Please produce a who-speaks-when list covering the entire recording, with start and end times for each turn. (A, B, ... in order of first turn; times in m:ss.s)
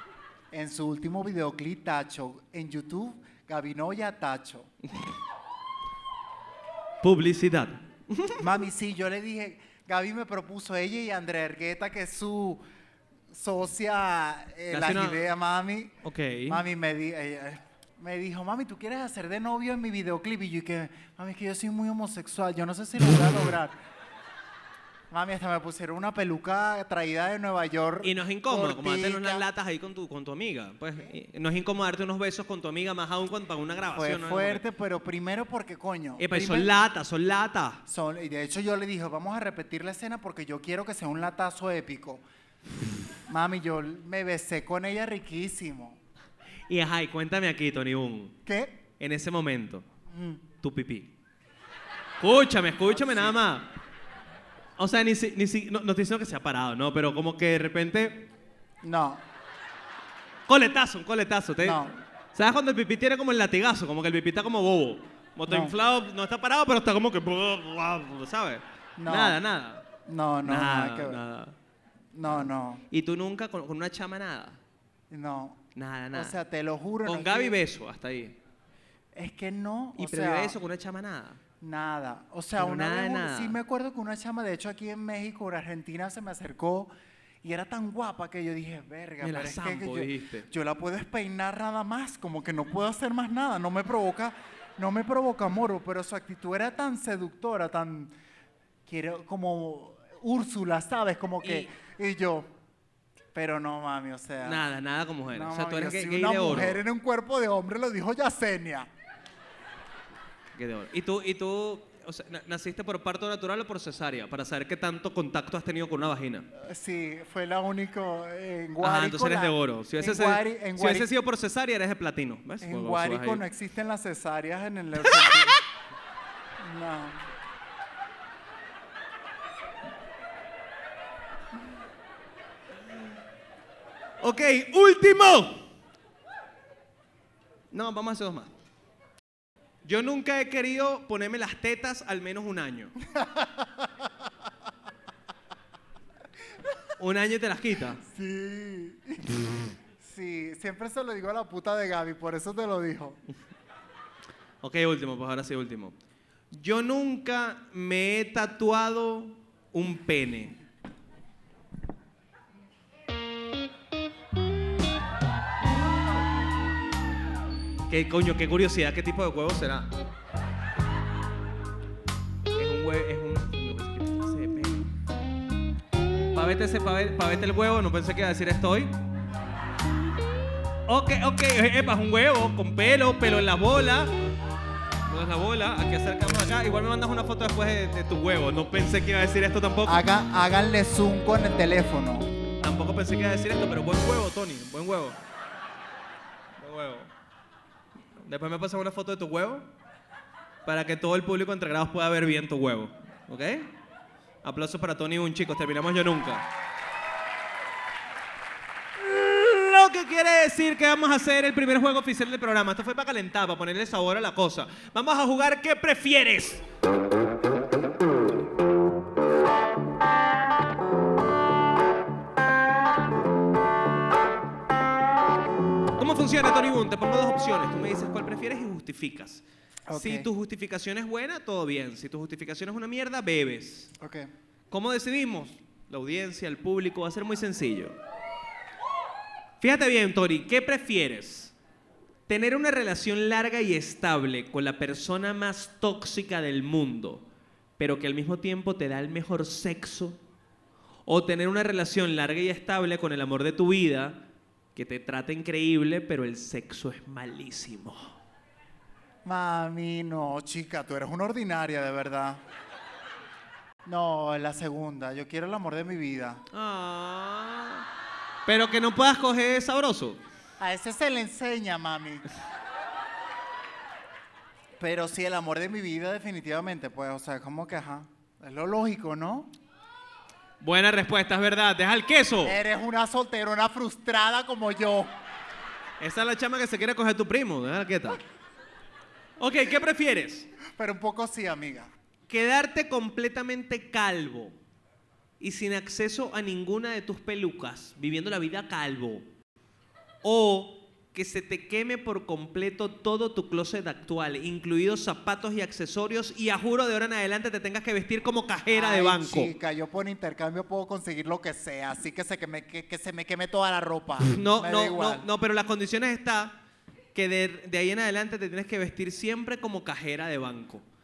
0:00.5-0:04.7 A
0:07.0-0:08.4 B
0:08.4-0:12.6 A
0:13.3-0:16.0 A
0:14.7-0:15.2 B
0:16.0-0:16.6 B
0:16.5-0:23.8 A
0:25.1-0:29.4 A
0:28.0-0:34.6 B
0:33.9-0:36.7 A
0:36.2-0:37.8 B
0:37.9-0:42.2 A
0:43.3-0:46.0 A
0:46.7-0:48.4 B
0:48.4-0:48.8 A
0:49.0-0:49.8 B
0:50.1-0:50.4 A
0:50.6-0:51.1 B
0:52.2-0:53.7 B
0:52.8-0:53.4 A
0:54.8-0:58.2 B
0:58.8-0:59.2 A
1:00.5-1:09.8 B
1:01.6-1:01.9 A
1:05.5-1:05.7 A
1:09.0-1:09.4 A
1:10.1-1:11.2 A
1:10.4-1:11.6 B
1:12.1-1:12.8 A
1:12.9-1:14.6 B
1:15.1-1:15.6 A
1:15.8-1:16.4 B
1:16.1-1:17.6 A
1:17.0-1:18.4 B
1:19.1-1:20.6 A
1:20.0-1:21.4 B
1:21.6-1:26.9 A
1:22.6-1:23.6 B
1:27.4-1:38.1 A
1:29.2-1:30.5 B
1:38.9-1:42.5 A
1:41.4-1:41.7 B
1:43.3-1:44.6 A
1:44.4-1:46.8 B
1:45.3-1:48.9 A
1:50.5-1:56.5 B
1:56.6-2:01.1 A
1:58.8-2:03.4 B
2:02.6-2:05.6 A
2:05.1-2:05.5 B
2:06.6-2:07.2 A
2:14.2-2:15.7 B
2:17.7-2:18.5 B
2:19.8-2:22.9 B
2:23.1-2:24.1 A
2:27.0-2:28.0 B
2:28.0-2:33.2 A
2:34.6-2:36.0 B
2:36.5-2:40.6 B
2:47.9-2:49.9 B
2:52.5-2:54.9 B
2:56.3-2:58.9 B
3:00.9-3:04.1 B
3:05.0-3:10.0 B
3:09.9-3:12.3 A
3:12.6-3:15.2 B
3:16.6-3:17.1 B
3:18.2-3:19.7 B
3:20.7-3:23.7 B
3:24.4-3:26.5 B
3:29.0-3:36.6 B
3:46.0-3:53.9 B
3:49.9-3:50.3 A
3:54.0-3:54.3 A
3:54.7-3:58.0 B
3:59.6-4:01.6 B
4:02.3-4:07.2 B
4:07.8-4:10.2 B
4:11.1-4:14.2 B
4:14.8-4:18.2 B
4:19.2-4:22.4 A
4:23.8-4:26.4 A
4:26.5-4:27.9 B
4:28.5-4:30.2 B
4:30.6-4:32.2 A
4:34.8-4:39.5 A
4:40.6-4:42.6 B
4:42.4-4:45.1 A
4:46.0-4:48.2 B
4:49.4-4:50.5 B
4:50.7-4:51.9 A
4:52.3-4:54.6 B
4:55.4-4:59.3 B
5:00.2-5:09.5 B
5:08.7-5:15.3 A
5:14.3-5:16.6 B
5:17.1-5:20.8 B